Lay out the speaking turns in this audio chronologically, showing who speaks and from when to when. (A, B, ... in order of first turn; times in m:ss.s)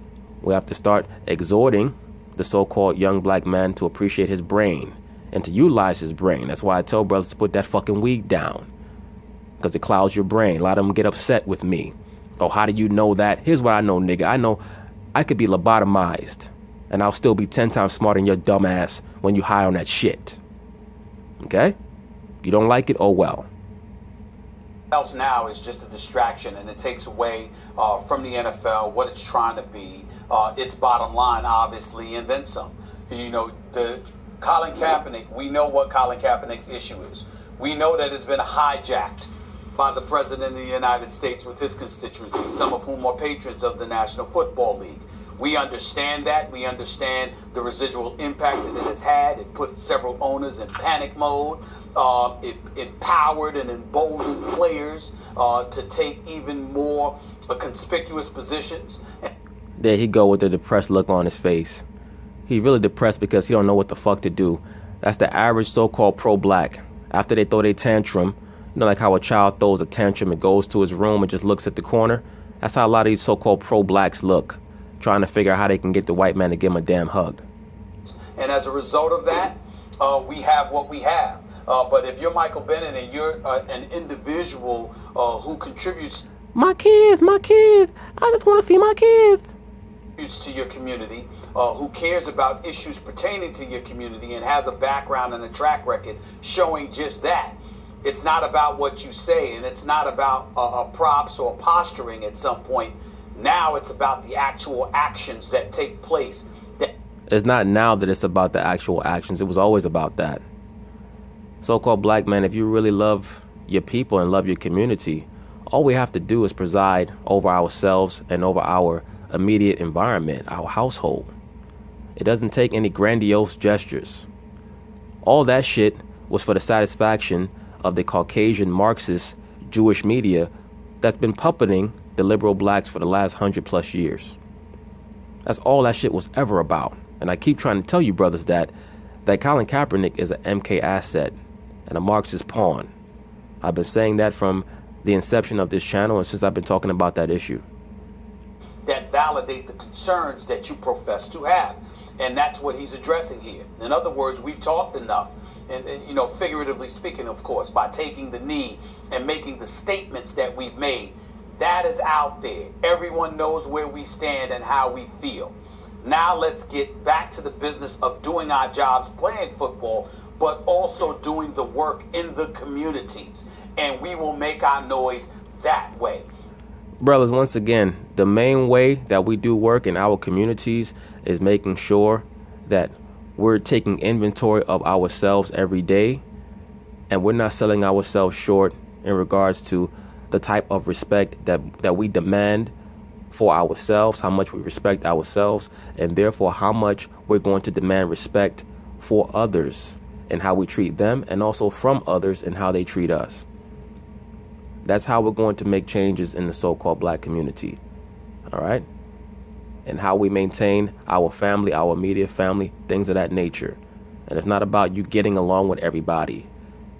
0:00.4-0:08.7 A
0:09.6-0:14.6 A
0:15.1-0:20.4 A
0:21.4-0:21.7 A
0:22.4-0:23.5 A
0:24.9-0:59.3 B
0:59.8-1:01.8 A
1:02.5-1:17.4 A
1:18.3-1:26.2 B
1:26.5-1:29.5 A
1:30.2-1:46.9 B
1:47.3-1:50.4 A
1:51.6-2:01.3 A
2:02.2-2:04.3 A
2:05.2-2:14.4 A
2:15.4-2:18.7 A
2:19.2-2:21.3 A
2:21.9-2:22.9 A
2:23.6-2:27.6 A
2:28.8-2:56.2 B
2:57.0-3:06.2 A
3:07.1-3:12.7 A
3:13.3-3:23.4 A
3:24.8-3:27.8 A
3:28.5-3:28.8 A
3:29.8-3:36.5 A